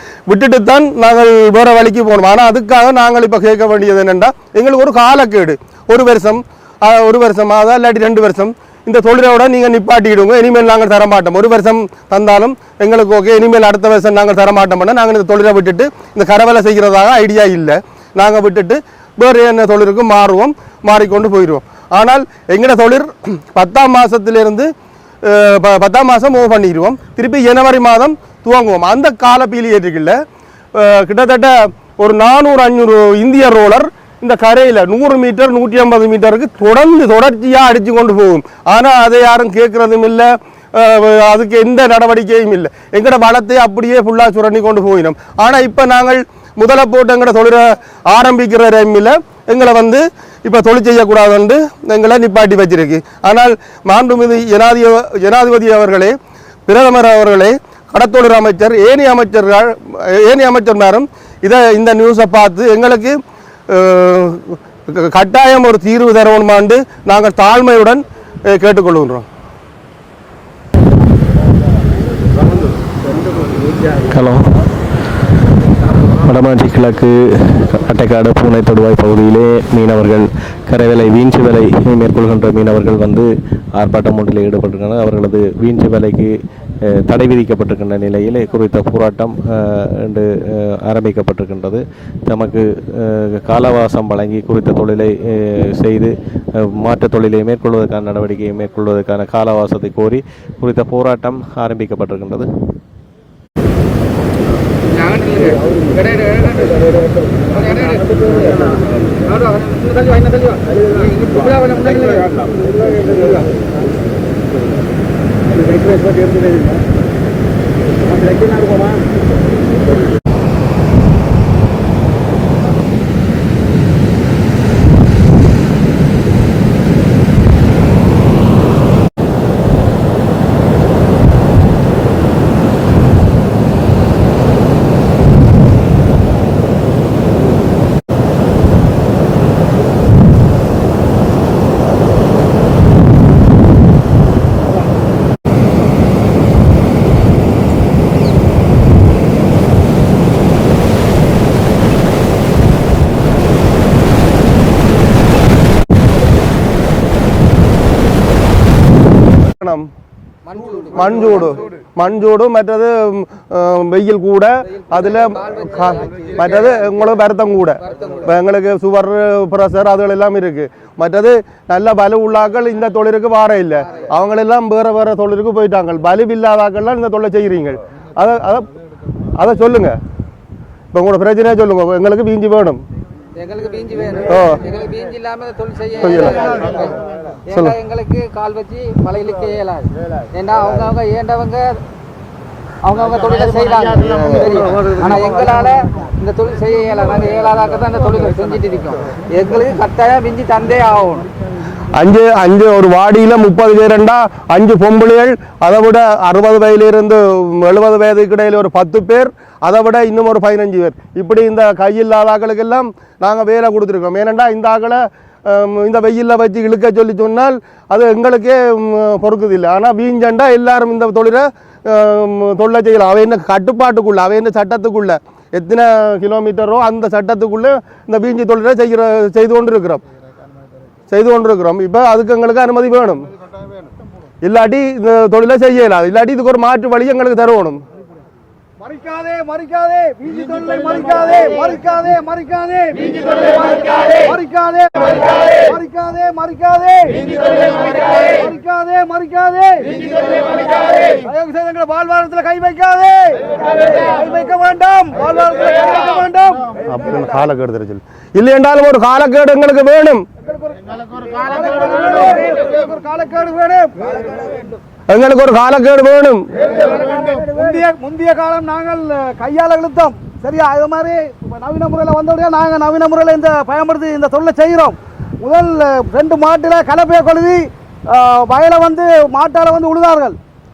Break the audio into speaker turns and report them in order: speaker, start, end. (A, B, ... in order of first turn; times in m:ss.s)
0:00.3-0:24.7 A
0:25.2-0:30.1 A
0:30.8-0:56.1 A
0:56.7-1:03.2 A
1:03.7-1:08.0 A
1:08.5-1:09.2 A
1:14.0-1:14.4 B
1:16.2-1:26.3 B
1:27.0-1:30.2 B
1:30.8-1:42.5 B
2:40.9-2:58.7 A
2:59.4-3:00.0 A
3:00.9-3:02.8 A
3:03.4-3:06.8 C
3:04.3-3:04.6 A
3:06.0-3:06.5 A
3:07.5-3:11.8 C
3:12.8-3:21.2 C
3:22.0-3:50.0 A
3:51.1-3:53.2 A
3:54.4-3:57.8 A
3:58.8-4:16.6 D
4:16.9-4:20.2 A
4:21.4-4:23.9 D
4:25.1-4:27.0 A
4:27.3-4:40.4 D